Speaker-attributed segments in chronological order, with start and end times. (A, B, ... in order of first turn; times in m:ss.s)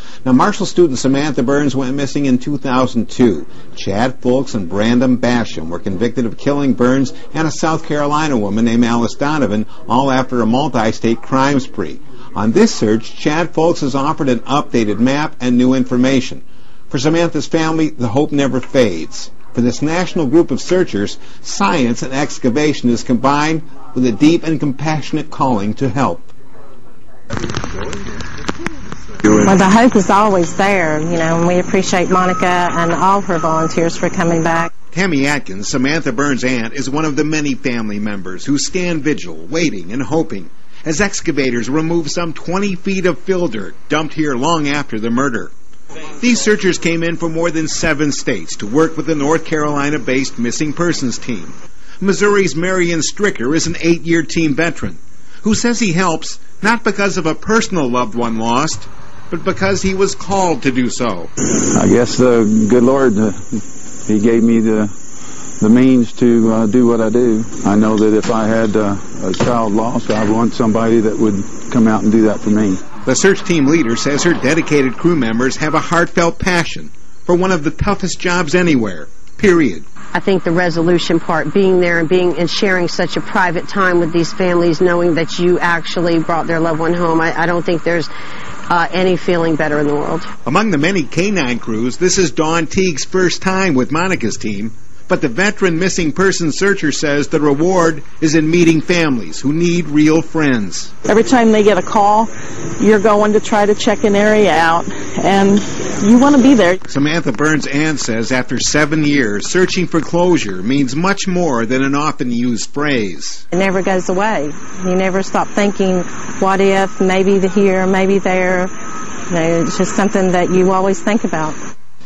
0:00.2-0:26.3 A
0:29.4-0:34.7 B
0:34.9-0:45.5 A
0:46.2-1:01.3 A
1:01.7-1:03.4 C
1:04.1-1:04.9 C
1:05.6-1:12.8 C
1:13.0-1:19.8 A
1:20.1-1:28.1 D
1:28.7-1:30.3 D
1:30.4-1:40.9 A
1:41.1-1:42.3 E
1:42.8-1:46.8 E
1:46.9-1:53.4 A
1:53.5-1:58.7 B
1:59.3-2:01.5 B